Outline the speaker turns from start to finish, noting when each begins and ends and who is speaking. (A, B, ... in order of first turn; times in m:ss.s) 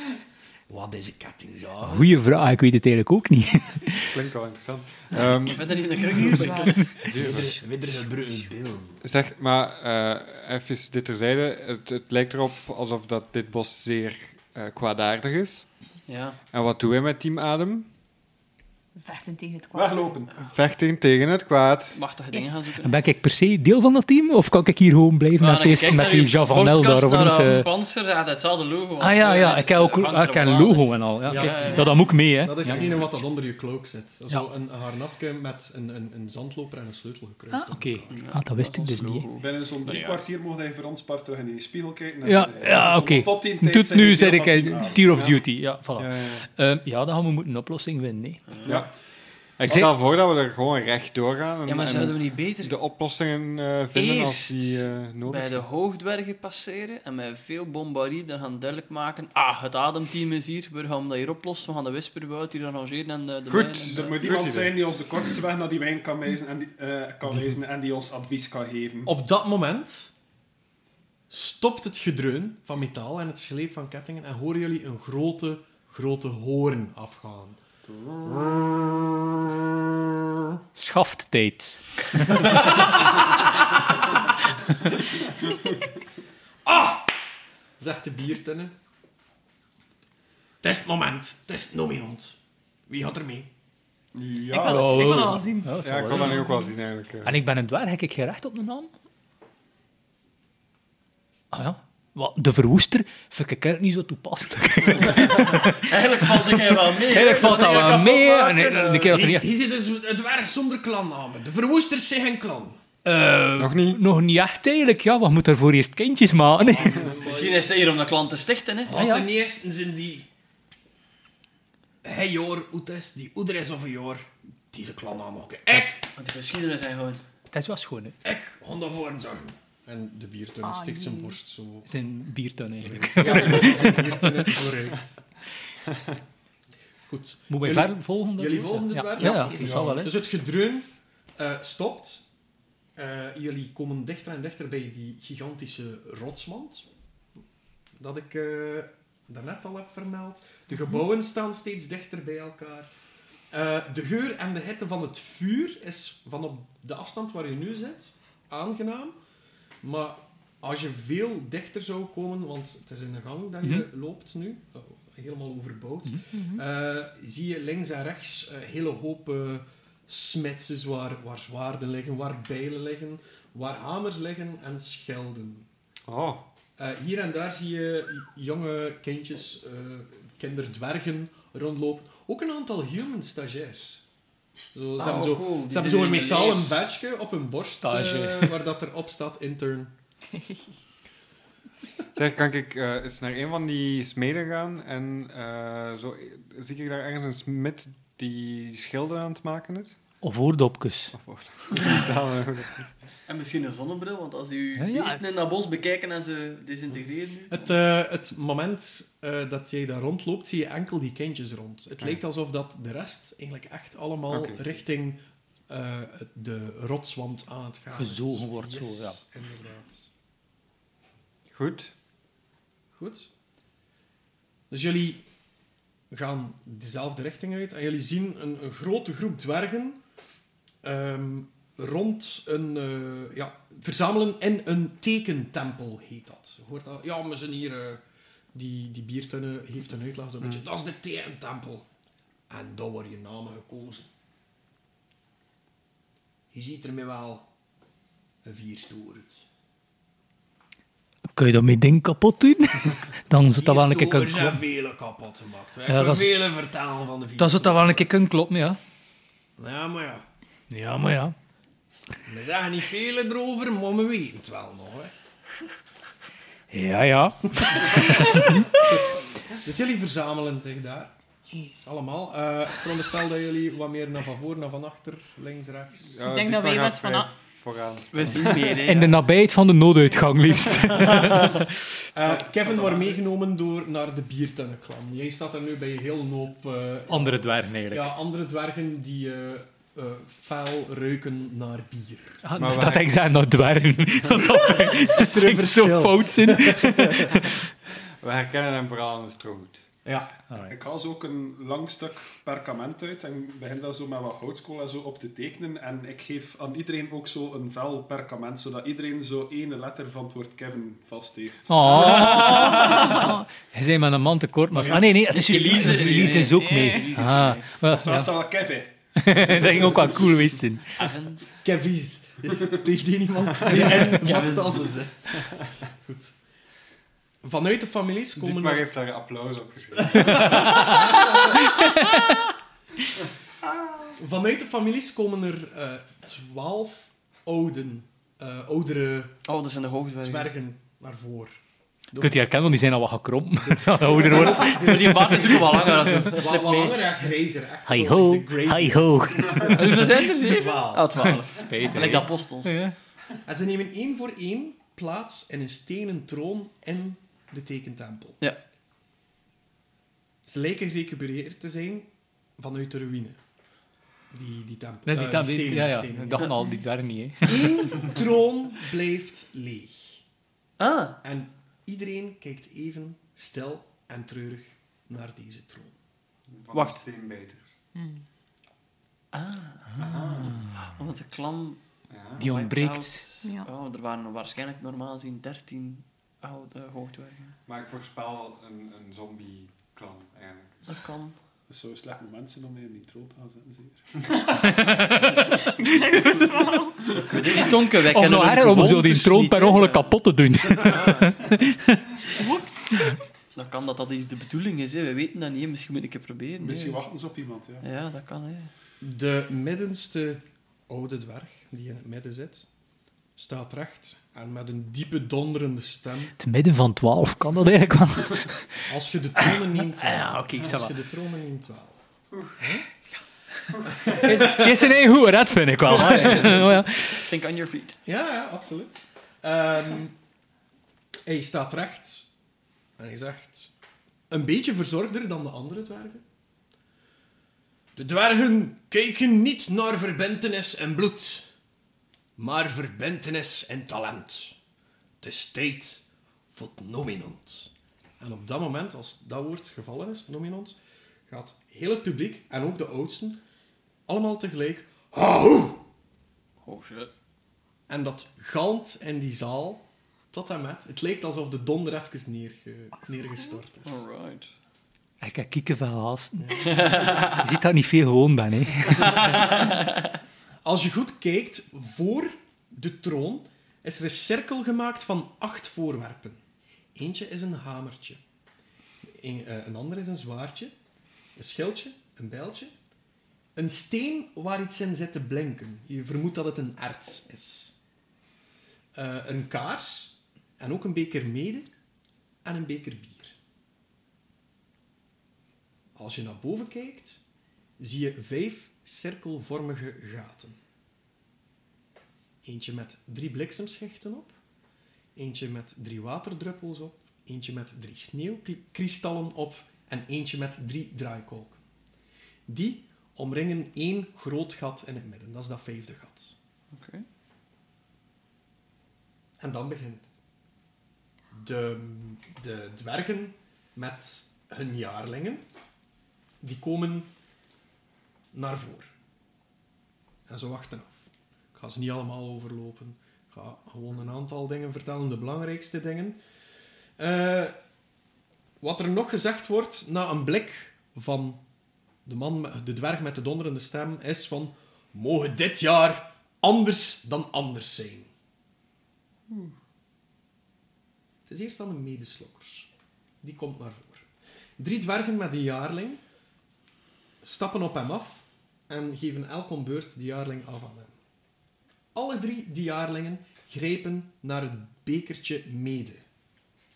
0:00.7-0:02.1 A
0:01.8-0:04.1 B
0:04.0-0:06.5 C
0:05.4-0:06.9 D
0:06.1-0:07.0 E
0:07.0-0:07.6 C
0:07.2-0:09.0 A
0:09.0-0:15.7 C
0:16.1-0:16.4 D
0:16.5-0:17.9 C
0:19.0-0:20.2 E
0:19.7-0:20.3 F
0:20.4-0:22.0 C
0:21.9-0:23.0 D
0:22.3-0:22.6 E
0:22.8-0:27.7 B
0:25.4-0:32.0 D
0:29.0-0:32.8 B
0:31.2-0:31.7 A
0:32.4-0:38.2 A
0:37.5-0:39.3 B
0:38.1-0:40.2 D
0:39.4-0:45.3 F
0:42.2-0:48.4 B
0:46.0-0:46.4 C
0:48.5-0:48.8 D
0:49.6-0:55.6 C
0:51.6-0:52.8 D
0:53.9-1:04.2 D
1:03.5-1:04.8 C
1:03.9-1:09.1 F
1:09.0-1:10.1 A
1:11.3-1:17.6 A
1:17.9-1:18.4 F
1:18.2-1:20.6 A
1:20.8-1:23.1 B
1:26.6-1:27.1 A
1:27.8-1:28.7 A
1:30.6-1:32.4 A
1:32.9-1:33.5 A
1:34.1-1:35.3 F
1:34.5-1:36.7 E
1:34.6-1:36.5 B
1:35.8-1:37.4 C
1:37.2-1:38.9 B
1:41.5-1:45.9 B
1:45.4-1:49.1 D
1:46.4-1:49.4 B
1:49.0-1:52.8 A
1:53.0-1:57.1 B
1:53.6-1:54.0 C
1:56.6-1:57.7 A
1:57.2-1:59.0 D
1:58.8-2:00.3 A
1:58.9-1:59.3 B
2:02.0-2:06.0 A
2:06.1-2:07.2 D
2:07.5-2:08.2 B
2:08.2-2:11.9 A
2:10.6-2:11.4 E
2:11.9-2:14.5 B
2:12.8-2:15.2 A
2:17.1-2:22.2 A
2:17.5-2:20.1 B
2:19.2-2:20.1 E
2:23.0-2:26.9 A
2:28.0-2:32.9 A
2:33.5-2:39.1 A
2:39.8-2:55.7 A
2:46.3-2:46.6 E
2:56.1-2:56.4 C
2:56.8-3:04.0 A
3:04.7-3:09.9 A
3:05.0-3:06.8 D
3:07.8-3:08.6 B
3:12.1-3:19.9 C
3:20.2-3:21.1 B
3:21.1-3:22.9 C
3:23.3-3:27.7 D
3:24.8-3:25.2 B
3:27.5-3:40.1 A
3:34.3-3:34.6 C
3:37.9-3:39.2 B
3:41.5-3:41.9 C
3:42.9-3:43.3 A
3:44.7-3:45.2 A
3:46.1-3:50.0 A
3:50.8-4:01.9 A
4:02.5-4:04.1 A
4:06.5-4:07.5 A
4:08.4-4:09.4 A
4:11.3-4:14.6 B
4:13.4-4:18.1 A
4:15.9-4:16.3 B
4:17.4-4:18.8 B
4:19.6-4:20.2 A
4:20.7-4:21.3 B
4:22.2-4:25.1 A
4:26.7-4:28.8 B
4:27.6-4:31.1 A
4:31.8-4:36.2 A
4:36.1-4:38.8 C
4:36.2-4:37.3 E
4:38.1-4:39.2 D
4:38.8-4:41.8 B
4:42.1-4:52.4 A
4:47.1-4:48.1 B
4:52.4-4:57.6 B
4:52.6-4:53.2 C
4:54.8-4:57.5 A
4:58.2-4:59.8 C
5:00.0-5:00.3 A
5:00.7-5:13.3 F
5:11.7-5:18.3 B
5:11.9-5:13.1 D
5:15.3-5:17.7 D
5:16.5-5:17.2 E
5:17.8-5:20.0 F
5:19.2-5:21.0 B
5:21.0-5:21.4 D
5:21.6-5:26.4 A
5:23.6-5:25.0 D
5:27.4-5:28.9 A
5:28.4-5:31.4 C
5:29.9-5:31.8 A
5:30.6-5:31.0 B
5:31.8-5:32.4 B
5:34.1-5:39.4 A
5:39.4-5:40.5 D
5:40.2-5:41.6 A
5:42.1-5:42.4 A
5:42.2-5:45.4 B
5:43.6-5:51.4 A
5:44.3-5:47.0 D
5:47.9-5:50.1 B
5:49.6-5:52.8 D
5:51.3-5:52.9 B
5:53.4-5:58.4 A
6:00.4-6:03.4 A
6:04.3-6:06.5 A
6:05.1-6:07.9 B
6:07.4-6:10.2 A
6:10.8-6:11.2 D
6:11.2-6:16.0 A
6:16.5-6:17.7 C
6:16.7-6:17.0 D
6:17.9-6:18.2 E
6:19.3-6:21.8 D
6:20.0-6:20.7 C
6:22.1-6:22.4 C
6:22.3-6:27.6 D
6:22.4-6:23.2 B
6:23.4-6:23.7 E
6:27.6-6:30.8 C
6:30.9-6:31.4 D
6:31.7-6:34.1 F
6:34.7-6:35.5 B
6:35.8-6:37.1 E
6:37.0-6:37.8 F
6:37.1-6:40.1 D
6:37.9-6:42.0 B
6:42.3-6:43.2 E
6:43.6-6:47.0 D
6:46.6-6:47.8 F
6:47.8-6:48.7 D
6:49.0-6:52.7 A
6:53.4-6:56.4 A
6:56.4-6:58.8 B
6:58.9-7:02.0 A
6:59.4-7:00.9 B
7:02.6-7:02.9 A
7:03.8-7:04.9 A
7:04.1-7:07.3 B
7:05.8-7:06.8 A
7:06.0-7:08.0 D
7:08.0-7:10.2 A
7:11.2-7:12.3 A
7:13.0-7:13.7 A
7:14.3-7:16.2 A
7:17.9-7:21.5 A
7:22.4-7:24.6 A
7:25.2-7:30.8 A
7:31.3-7:33.4 A
7:34.1-7:35.8 A
7:36.6-7:37.1 D
7:37.9-7:44.0 A
7:43.8-7:44.5 D
7:45.2-7:49.7 B
7:46.4-7:47.2 A
7:46.6-7:47.4 D
7:49.0-7:50.0 D
7:50.6-7:56.4 A
7:56.9-7:58.2 A
7:59.0-8:00.7 A
8:01.4-8:02.7 A
8:03.6-8:07.7 A
8:08.9-8:11.7 A
8:12.4-8:13.4 A
8:15.9-8:17.2 A
8:17.8-8:20.6 A
8:22.4-8:24.4 A
8:25.2-8:31.6 A
8:32.5-8:36.3 A
8:36.7-8:37.0 D
8:39.4-8:40.1 A
8:41.3-8:45.4 A
8:46.4-8:47.1 A
8:48.3-8:48.9 A
8:50.3-8:56.2 A
8:57.0-8:57.6 A
8:58.6-9:01.4 A
9:02.0-9:08.1 A
9:11.2-9:12.7 A
9:13.2-9:16.0 A
9:17.2-9:21.0 A
9:21.9-9:26.0 A